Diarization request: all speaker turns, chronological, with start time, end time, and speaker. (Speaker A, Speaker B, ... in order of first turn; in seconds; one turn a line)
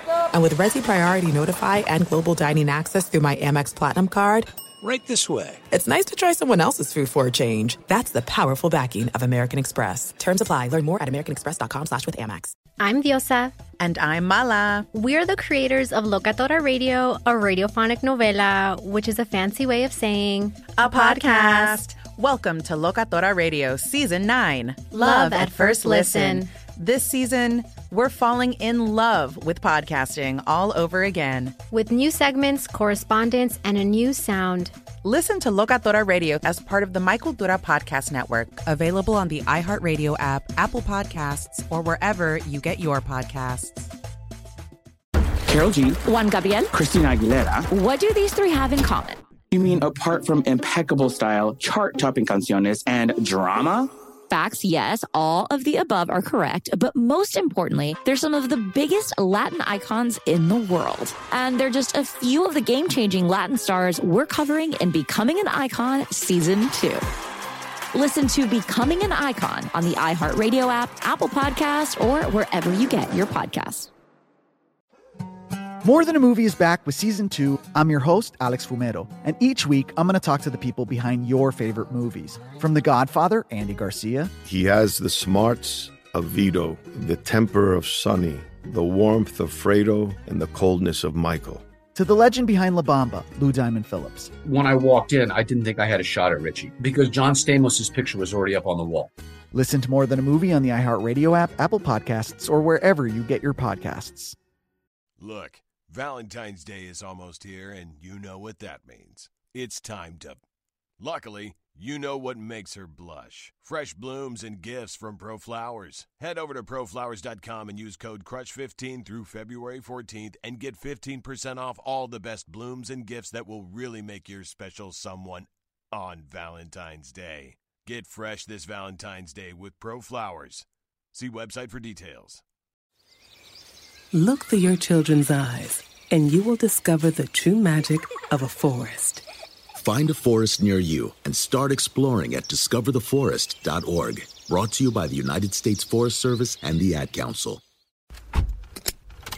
Speaker A: 0.3-4.5
Speaker A: 5.7-12.6
Speaker B: 12.8-13.6
Speaker C: 13.8-14.9
Speaker B: 14.9-21.9
Speaker C: 20.8-31.6
Speaker B: 24.9-26.5
Speaker B: 31.7-34.8
Speaker C: 35.0-43.9
Speaker D: 45.5-46.0
Speaker E: 46.0-46.7
Speaker D: 46.7-47.7
Speaker E: 47.7-49.2
Speaker D: 49.5-53.9
Speaker E: 54.3-67.0
Speaker E: 67.9-73.9
Speaker F: 75.8-84.3
Speaker G: 84.4-91.7
Speaker F: 92.0-94.3
Speaker H: 94.5-99.1
Speaker F: 99.5-104.4
Speaker I: 105.2-110.4
Speaker I: 111.0-132.4
Speaker J: 134.1-139.2
Speaker K: 139.8-147.6